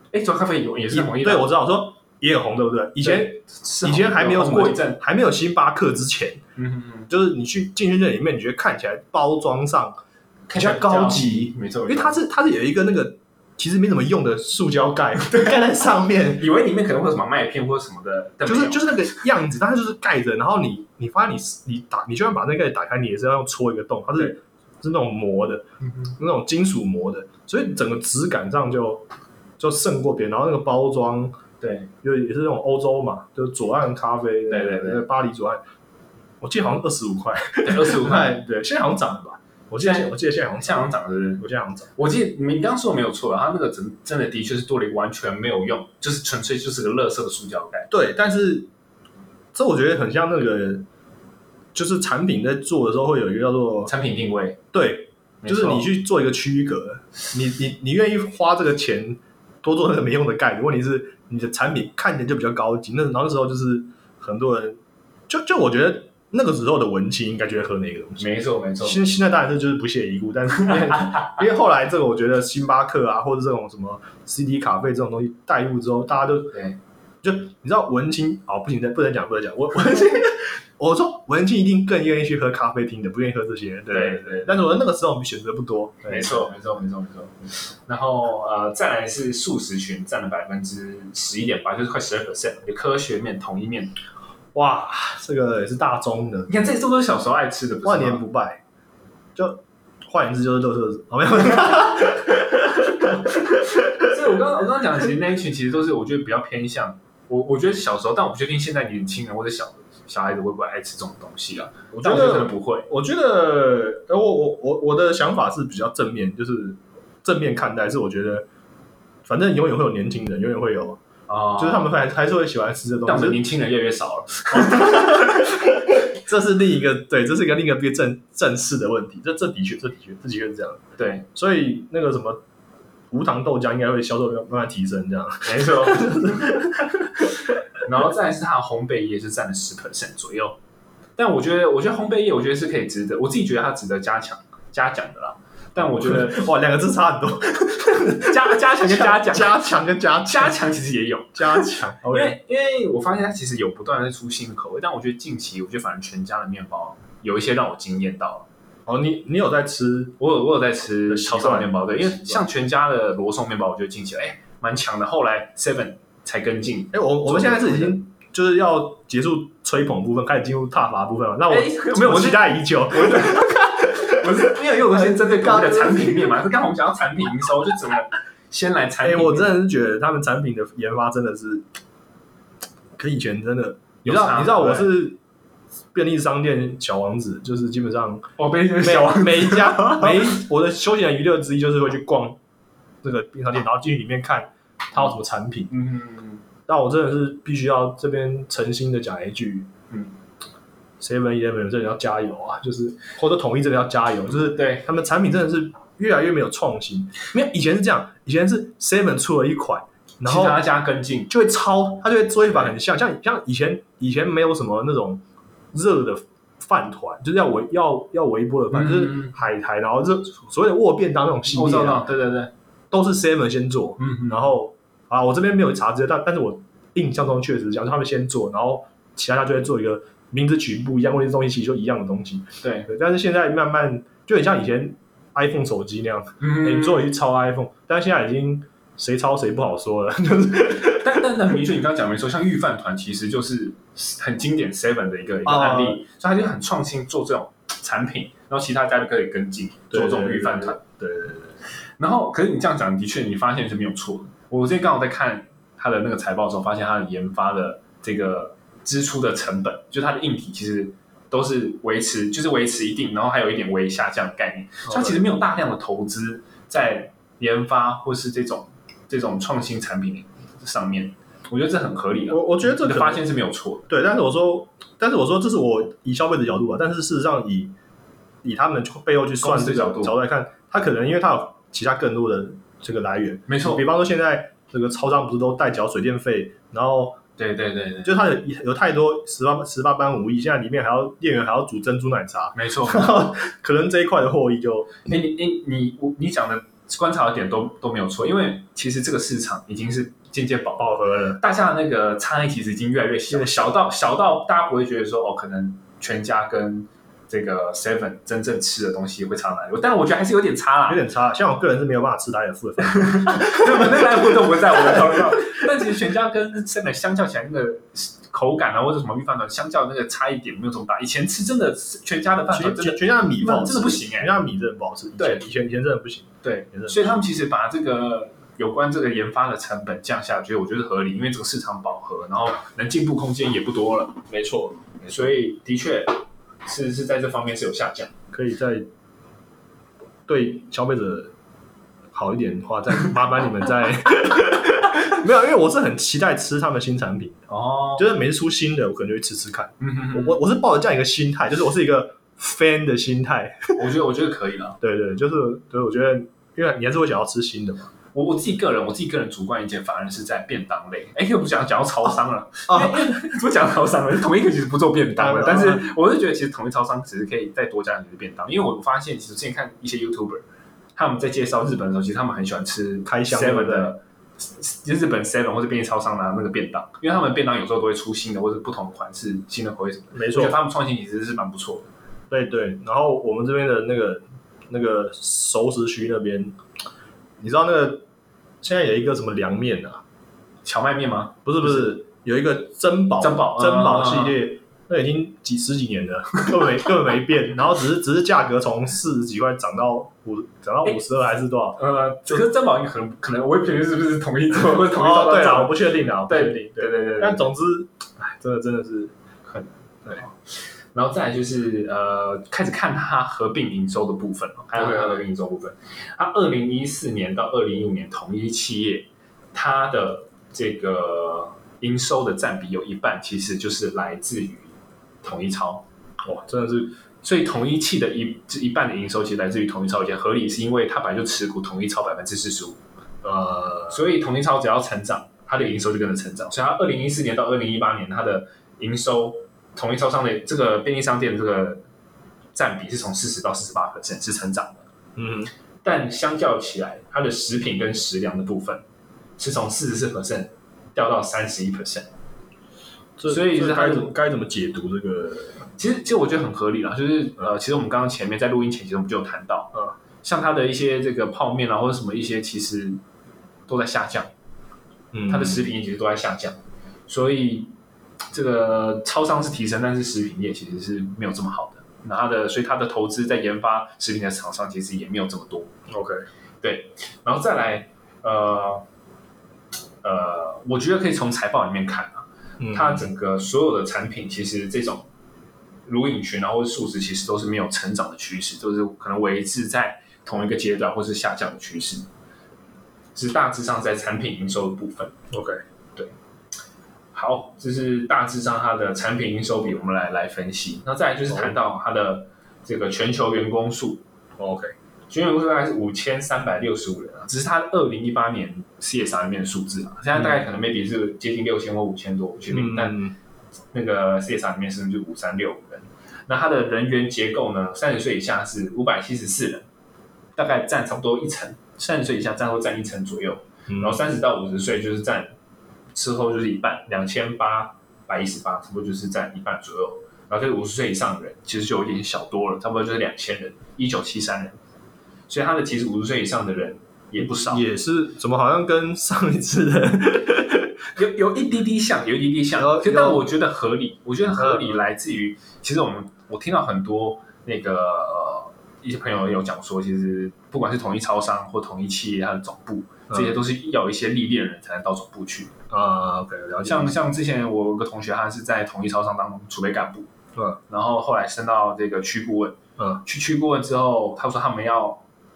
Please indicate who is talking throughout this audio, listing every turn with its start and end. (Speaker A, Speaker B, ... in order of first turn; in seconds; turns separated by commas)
Speaker A: 0.1-1.6, Speaker B: 0.9-6.4, Speaker A: 3.0-5.0, Speaker A: 6.5-7.1, Speaker B: 7.1-10.0, Speaker A: 10.5-12.2, Speaker B: 10.5-16.4, Speaker A: 15.3-15.6, Speaker A: 16.3-19.1, Speaker B: 18.4-25.6, Speaker A: 25.8-26.1, Speaker B: 26.1-29.0, Speaker B: 29.6-31.4, Speaker A: 31.6-31.9, Speaker B: 32.0-35.6, Speaker A: 34.5-35.0, Speaker B: 36.4-41.9, Speaker A: 37.6-38.4, Speaker A: 39.8-41.4, Speaker A: 42.0-47.9, Speaker B: 47.9-48.7, Speaker B: 49.5-50.8, Speaker B: 51.7-53.9, Speaker A: 53.9-54.6, Speaker B: 54.7-68.3, Speaker A: 55.4-55.9, Speaker A: 68.2-69.0, Speaker B: 68.8-76.6, Speaker A: 70.6-71.4, Speaker B: 77.2-86.5, Speaker A: 83.9-84.6, Speaker A: 86.1-93.9, Speaker B: 94.5-96.7, Speaker A: 96.5-98.2, Speaker B: 97.8-98.6, Speaker B: 99.3-104.2, Speaker A: 104.0-112.9, Speaker B: 112.0-118.5, Speaker B: 119.2-121.0, Speaker A: 121.3-121.9, Speaker B: 121.6-123.4, Speaker A: 123.0-125.4, Speaker B: 124.5-132.4, Speaker A: 131.0-131.2, Speaker B: 133.1-137.3, Speaker A: 135.4-136.6, Speaker A: 137.8-140.6, Speaker A: 141.2-146.4, Speaker B: 145.8-150.6, Speaker A: 148.2-158.4, Speaker B: 151.3-152.4, Speaker B: 158.9-160.2, Speaker A: 160.2-168.0, Speaker B: 161.1-162.4, Speaker B: 166.9-176.4, Speaker A: 171.5-179.6, Speaker B: 179.0-181.6, Speaker B: 183.0-185.2, Speaker A: 184.0-184.9, Speaker B: 185.9-192.4, Speaker A: 188.4-190.4, Speaker B: 193.0-195.7, Speaker A: 195.7-196.4, Speaker B: 196.7-199.7, Speaker B: 201.0-210.6, Speaker A: 204.3-204.8, Speaker A: 210.2-211.3, Speaker B: 211.3-215.2, Speaker A: 212.4-212.7, Speaker B: 215.7-222.1, Speaker A: 218.7-219.3, Speaker A: 221.5-222.5, Speaker B: 222.9-241.1, Speaker A: 224.0-224.5, Speaker A: 232.6-232.9, Speaker A: 236.4-237.1, Speaker A: 241.0-250.8, Speaker B: 245.4-246.0, Speaker B: 249.9-251.6, Speaker A: 252.0-273.9, Speaker B: 264.9-265.2, Speaker B: 272.3-273.2, Speaker B: 273.9-277.7, Speaker B: 278.4-287.2, Speaker A: 279.4-280.1, Speaker A: 283.5-283.8, Speaker A: 287.4-288.2, Speaker B: 288.0-295.1, Speaker A: 292.5-293.2, Speaker A: 295.1-311.0, Speaker B: 300.8-301.4, Speaker B: 303.3-303.8, Speaker B: 310.9-315.6, Speaker A: 312.8-324.4, Speaker B: 322.5-327.2, Speaker A: 325.2-325.4, Speaker A: 326.4-334.2, Speaker B: 334.3-335.0, Speaker A: 335.0-338.1, Speaker B: 338.3-338.9, Speaker B: 340.3-341.3, Speaker B: 342.1-353.8, Speaker A: 347.5-348.1, Speaker A: 349.8-350.4, Speaker A: 353.8-354.8, Speaker B: 354.8-357.9, Speaker A: 358.1-370.4, Speaker B: 362.7-363.3, Speaker B: 365.1-365.9, Speaker A: 370.9-381.9, Speaker B: 373.1-373.9, Speaker B: 380.1-380.6, Speaker B: 382.3-386.6, Speaker B: 387.4-388.0, Speaker B: 388.6-390.0, Speaker A: 390.6-391.9, Speaker B: 391.4-402.4, Speaker A: 393.2-394.4, Speaker A: 401.8-407.5, Speaker B: 404.7-409.1, Speaker A: 409.4-425.8, Speaker B: 414.8-415.2, Speaker B: 426.2-426.9, Speaker A: 427.2-432.8, Speaker B: 433.2-434.1, Speaker A: 433.9-441.8, Speaker A: 442.5-444.8, Speaker B: 445.1-445.5, Speaker A: 445.8-448.8, Speaker A: 449.4-452.1, Speaker B: 453.2-455.7, Speaker A: 453.3-454.1, Speaker A: 455.8-459.7, Speaker A: 460.2-463.0, Speaker A: 463.7-464.3, Speaker B: 465.1-465.6, Speaker A: 465.3-467.7, Speaker A: 468.3-475.7, Speaker B: 475.9-476.2, Speaker A: 476.6-478.8, Speaker A: 480.0-485.1, Speaker B: 482.6-483.1, Speaker A: 485.9-492.1, Speaker A: 493.1-495.1, Speaker B: 495.3-495.6, Speaker A: 497.1-504.0, Speaker B: 501.3-501.5, Speaker B: 504.4-504.7, Speaker A: 505.1-513.0, Speaker B: 512.5-513.1, Speaker A: 513.7-519.6, Speaker A: 520.4-525.3, Speaker B: 523.7-524.0, Speaker A: 525.9-534.6, Speaker A: 535.3-537.6, Speaker B: 537.2-540.8, Speaker A: 541.0-555.5, Speaker B: 542.5-543.3, Speaker B: 544.4-544.8, Speaker B: 553.1-553.3, Speaker B: 555.7-557.0, Speaker A: 556.6-560.1, Speaker A: 560.7-565.0, Speaker B: 562.8-563.0